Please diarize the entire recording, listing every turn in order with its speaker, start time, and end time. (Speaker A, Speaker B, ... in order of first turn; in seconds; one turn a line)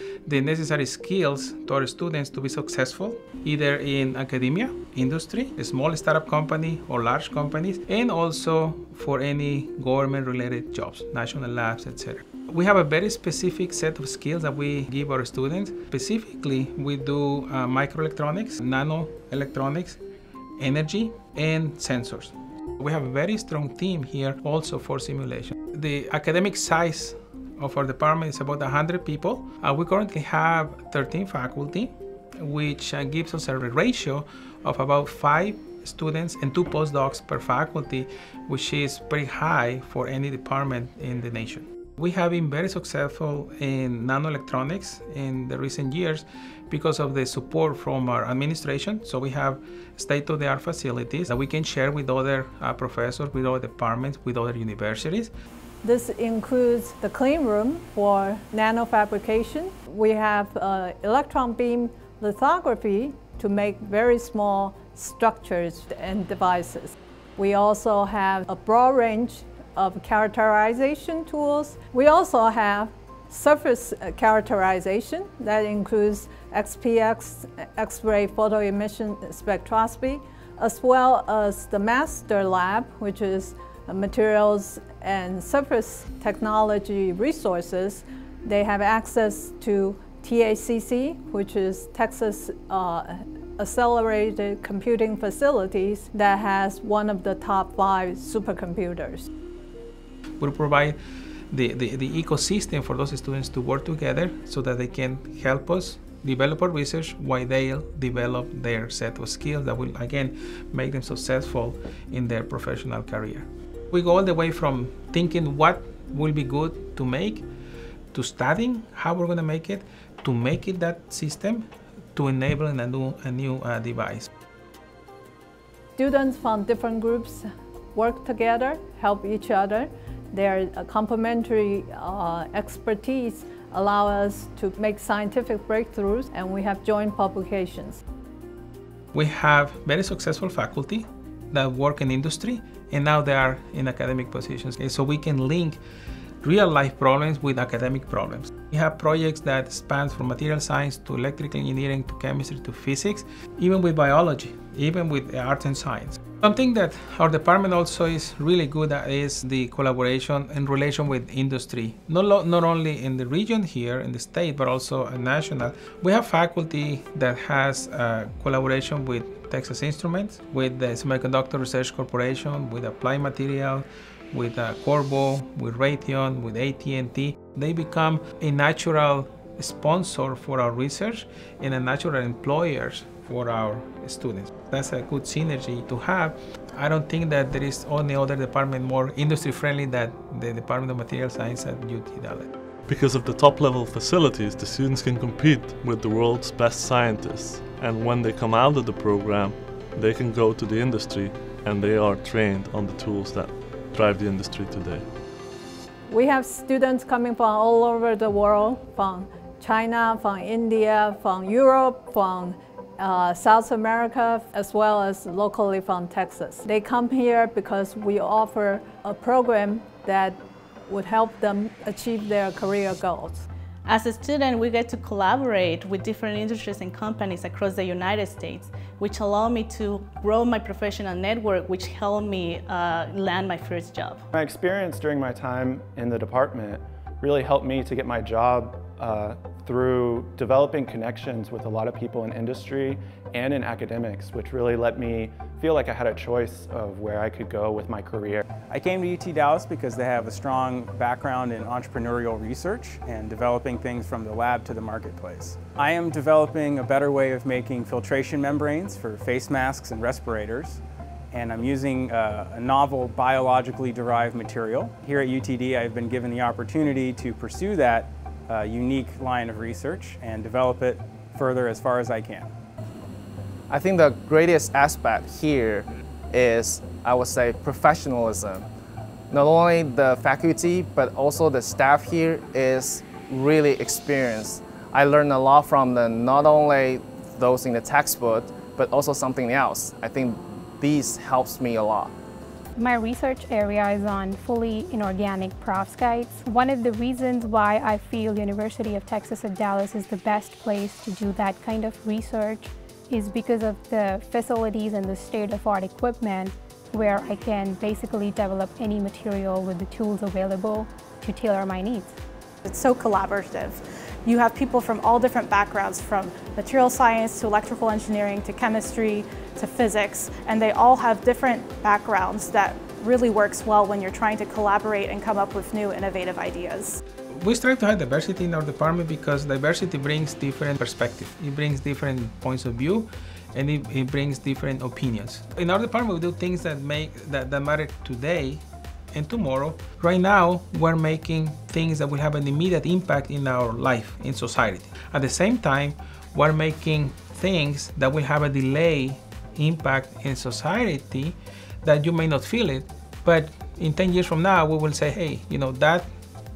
Speaker A: 0.2-20.0
Speaker A: 20.6-55.3
Speaker B: 55.8-99.3
Speaker A: 100.4-101.0
Speaker A: 101.5-117.4
Speaker A: 118.1-124.3
Speaker B: 126.0-138.0
Speaker A: 139.1-145.8
Speaker A: 146.4-192.5
Speaker C: 192.9-205.0
Speaker B: 206.1-223.5
Speaker D: 223.8-234.2
Speaker E: 234.3-248.4
Speaker F: 248.7-260.8
Speaker F: 261.3-272.5
Speaker G: 273.7-278.6
Speaker G: 279.3-292.1
Speaker H: 292.8-312.1
Speaker I: 312.6-327.0
Speaker A: 327.3-356.1